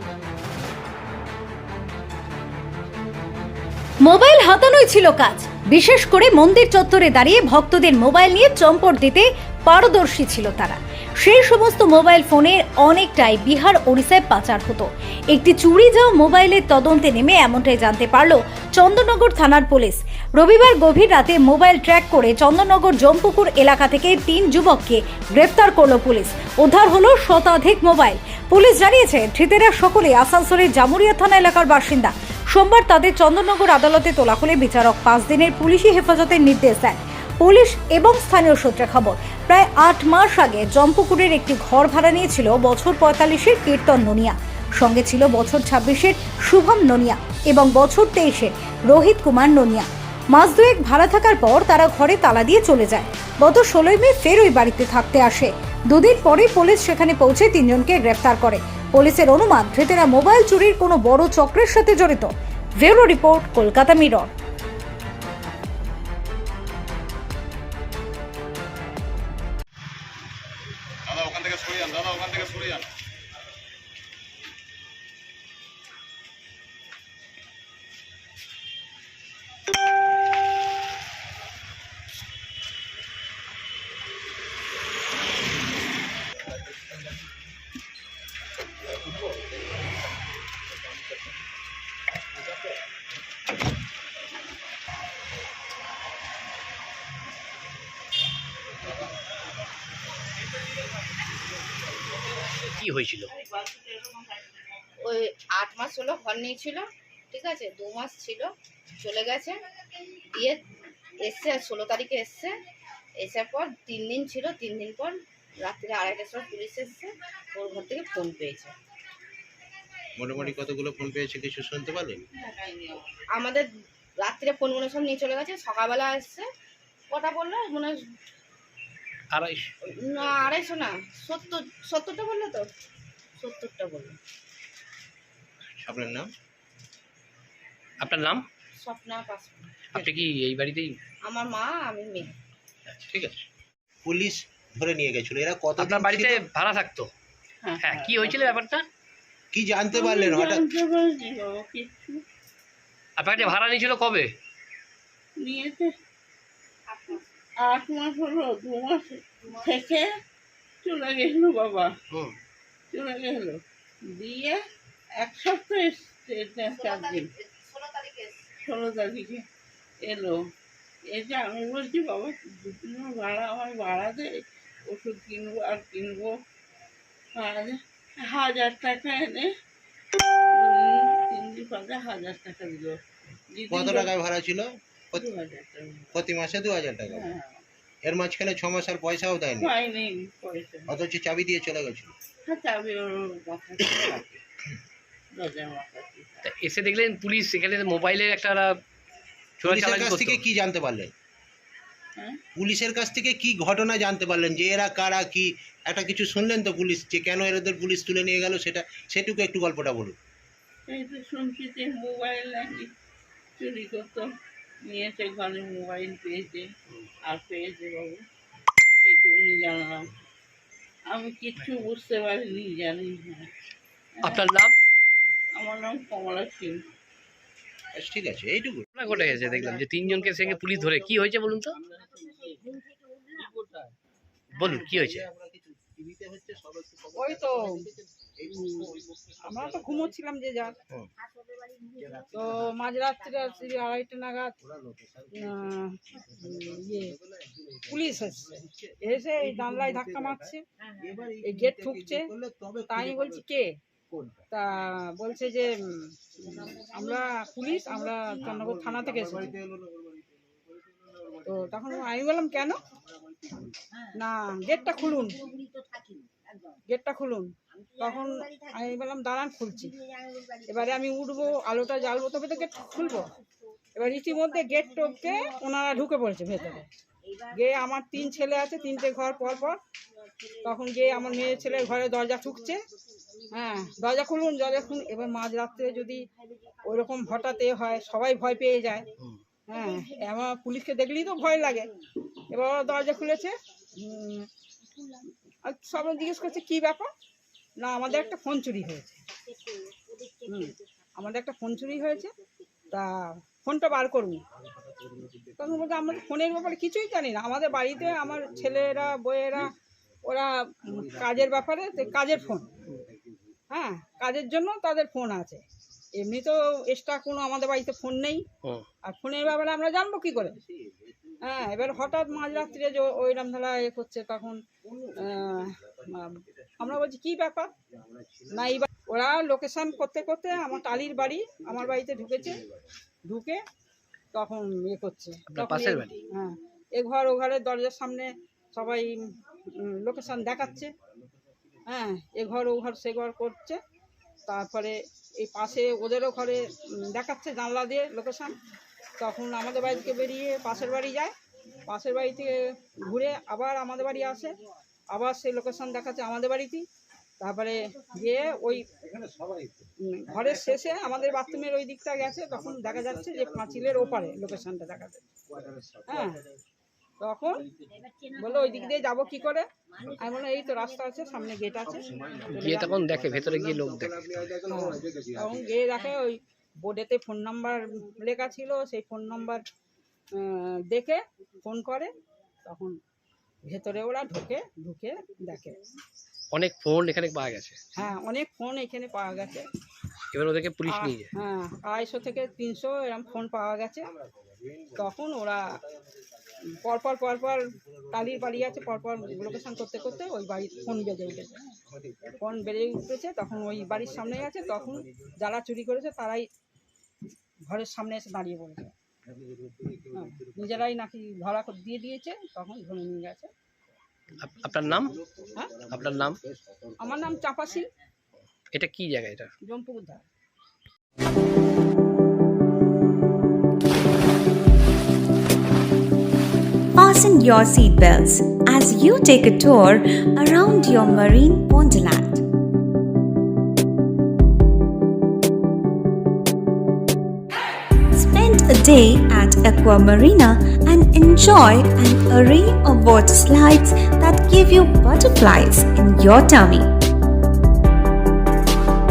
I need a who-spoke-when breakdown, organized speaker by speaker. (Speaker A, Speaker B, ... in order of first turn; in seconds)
Speaker A: 4.0-64.3
Speaker B: 102.8-103.3, 129.3-129.6, 138.0-138.4, 139.9-141.0, 145.8-147.1, 147.8-148.8, 153.2-154.3, 196.4-198.8, 199.6-200.4, 224.2-224.8, 228.9-231.8, 234.5-235.2, 335.5-336.1, 372.5-374.5, 386.5-387.8, 390.3-391.3, 414.4-415.1, 415.9-416.4, 418.7-419.5
Speaker C: 105.0-109.6, 110.3-110.6, 111.2-112.5, 113.2-118.7, 123.3-123.7, 124.2-126.5, 127.1-128.0, 129.9-132.7, 133.4-134.2, 138.8-139.7, 141.2-142.3, 166.8-168.3
Speaker D: 120.2-122.2, 135.8-136.3, 139.9-140.2, 143.0-143.4, 144.0-146.5, 149.5-150.6, 183.7-185.2, 186.1-187.3, 188.0-189.7, 190.9-192.1, 199.6-201.1, 202.6-210.2, 227.9-232.5, 233.4-233.8, 234.5-240.2, 242.0-242.8, 244.6-250.5, 251.1-253.4, 254.1-254.4, 258.4-261.9, 263.4-263.7, 304.8-306.3, 307.8-309.1, 311.0-313.4, 320.4-322.6, 324.9-325.7, 326.5-327.0, 327.9-328.8, 330.5-332.6, 340.3-340.9, 359.1-361.6, 362.4-364.6, 365.5-366.3, 371.9-375.7, 394.6-395.1, 398.1-402.6, 403.6-405.3, 409.3-410.9, 414.7-417.4
Speaker E: 122.5-122.9, 147.6-148.7, 149.9-152.2, 153.3-153.6, 155.4-155.9, 157.6-160.1, 160.8-161.9, 162.9-164.6, 165.2-167.3, 168.6-169.4, 170.0-170.4, 171.1-176.4, 177.4-179.5, 180.6-183.0, 183.5-184.1, 185.1-186.3, 187.0-187.6, 189.6-190.9, 192.4-194.4, 195.3-196.4, 210.9-212.9, 213.6-214.3, 214.8-216.7, 217.2-218.2, 219.0-220.1, 221.1-223.5, 224.2-224.5, 225.6-226.8
Speaker F: 237.2-237.8, 238.5-238.9, 239.4-240.8, 242.3-244.5, 245.3-247.1, 247.9-250.6, 251.4-252.3, 252.9-253.8, 254.5-259.6, 261.4-262.8, 264.1-265.4, 266.9-269.9, 270.7-273.3, 273.9-276.9, 277.5-279.8, 280.6-282.8, 283.5-286.2, 286.8-289.1, 289.7-291.9, 292.5-294.5, 295.6-297.1, 297.8-299.2, 300.4-302.3, 302.9-304.4, 305.6-309.7, 310.3-312.6, 313.7-315.6, 316.1-318.4, 319.0-320.6, 321.4-324.6, 325.2-327.7, 328.5-332.6, 333.3-333.6, 334.3-339.2, 339.8-340.9, 341.9-343.8, 344.5-348.6, 349.2-351.3, 351.9-354.5, 355.1-356.8, 357.4-358.9, 360.0-365.2, 366.1-366.4, 367.2-367.6, 368.4-373.0, 374.6-379.6, 380.4-382.1, 382.6-382.9, 383.6-385.8, 388.0-389.7, 390.9-394.1, 394.9-395.7, 396.8-401.5, 402.4-406.4, 407.7-408.9, 410.1-413.5, 417.0-417.9, 419.6-420.2
Speaker G: 426.9-432.4, 438.1-446.9